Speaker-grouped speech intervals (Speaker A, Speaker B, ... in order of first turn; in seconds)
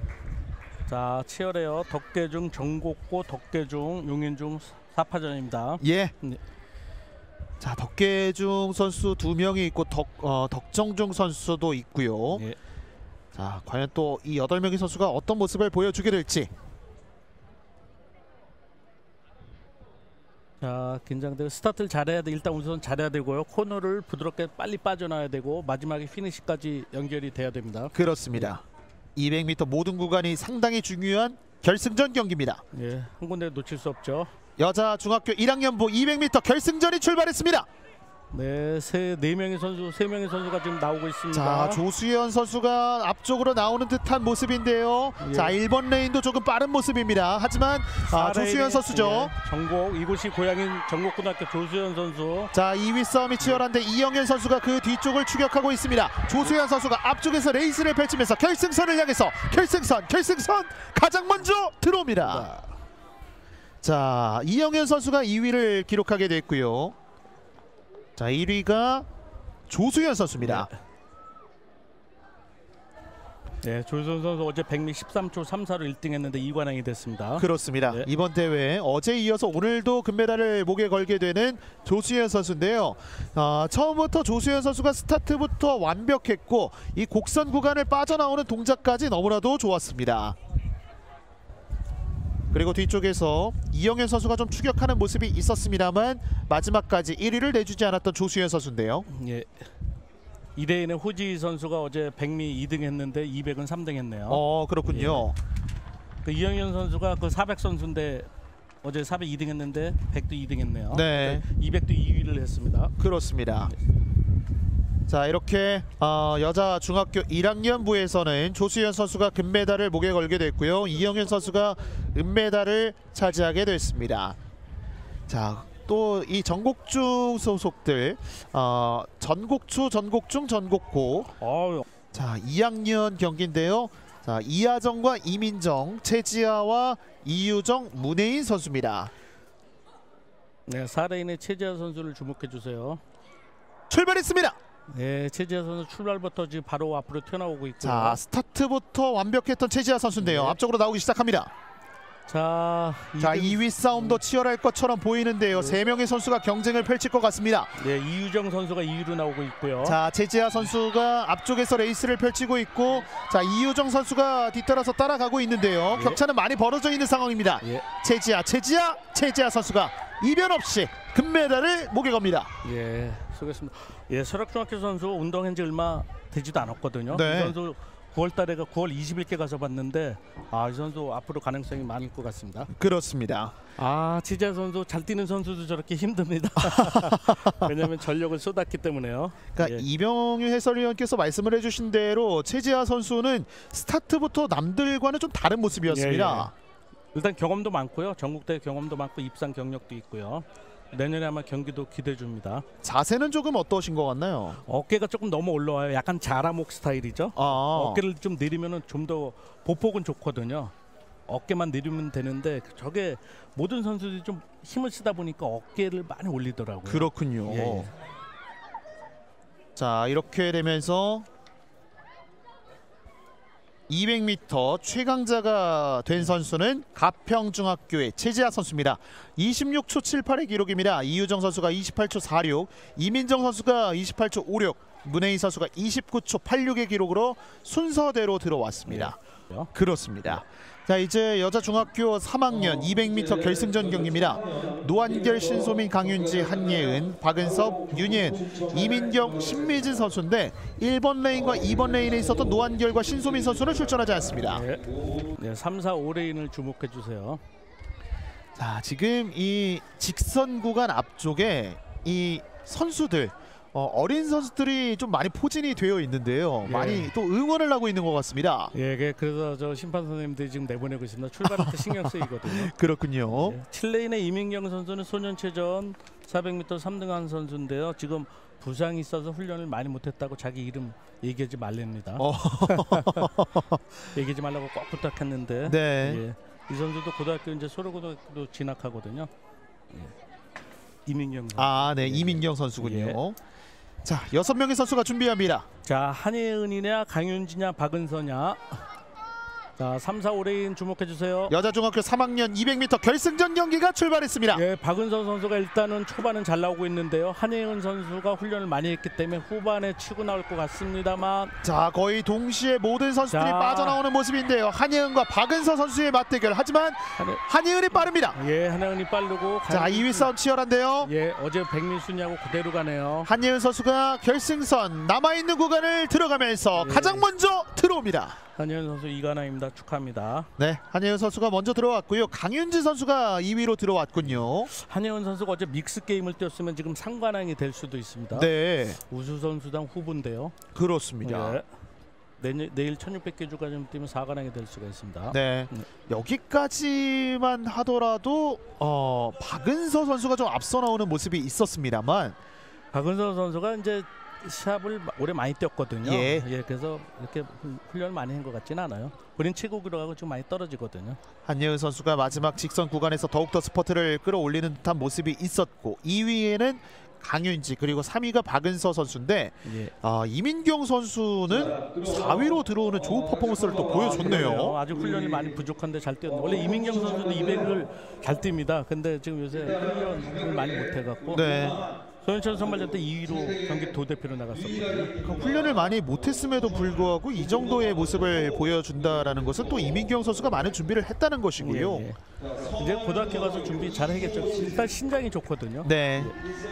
Speaker A: 0.9-6.4, 20.6-28.5, 32.7-34.3, 38.3-41.8, 45.2-45.5, 48.0-52.5, 62.2-62.7, 70.4-70.7, 73.6-78.1, 99.1-99.7, 100.5-105.3, 106.2-108.3, 108.8-112.9, 131.4-131.8, 140.7-143.0, 144.9-148.2, 150.2-150.6, 152.3-154.2, 157.8-160.0, 165.9-166.2, 172.6-182.7, 183.8-189.8, 195.9-196.5, 197.1-202.7, 204.6-210.7, 211.3-217.9, 238.9-239.7, 254.5-257.4, 266.6-267.1, 268.7-272.7, 273.3-283.3, 284.1-289.3, 291.1-293.2, 295.8-298.8, 299.8-301.5, 304.5-311.5, 313.2-314.0, 317.2-317.4, 317.9-320.3, 321.0-323.3, 326.8-327.3, 328.6-330.5, 334.2-340.6, 341.2-341.6, 342.4-345.9, 352.9-361.2, 369.6-369.9, 373.9-385.2, 391.6-396.3
Speaker B: 5.8-6.1, 7.6-12.4, 13.3-16.5, 27.9-28.6, 29.1-32.6, 34.6-37.7, 41.3-49.3, 52.5-62.5, 63.8-67.0, 68.2-69.0, 69.7-70.7, 77.4-90.3, 92.5-99.0, 104.3-105.3, 110.9-111.4, 113.0-113.7, 115.1-124.4, 125.3-131.4, 132.1-139.1, 143.9-144.6, 147.8-151.5, 153.2-157.7, 159.8-172.5, 177.1-177.6, 182.7-183.6, 186.6-187.7, 189.5-196.5, 202.8-204.6, 207.3-208.0, 216.8-217.9, 219.8-221.2, 223.9-239.2, 239.7-254.6, 258.6-268.7, 271.4-273.6, 282.2-283.8, 285.6-286.2, 291.6-293.4, 294.0-295.6, 301.5-304.6, 311.6-318.4, 319.7-321.1, 323.2-328.4, 330.6-334.7, 338.3-339.0, 340.7-341.6, 345.3-352.4, 356.0-356.5, 361.4-374.8, 381.3-381.8, 385.2-392.1, 395.8-396.3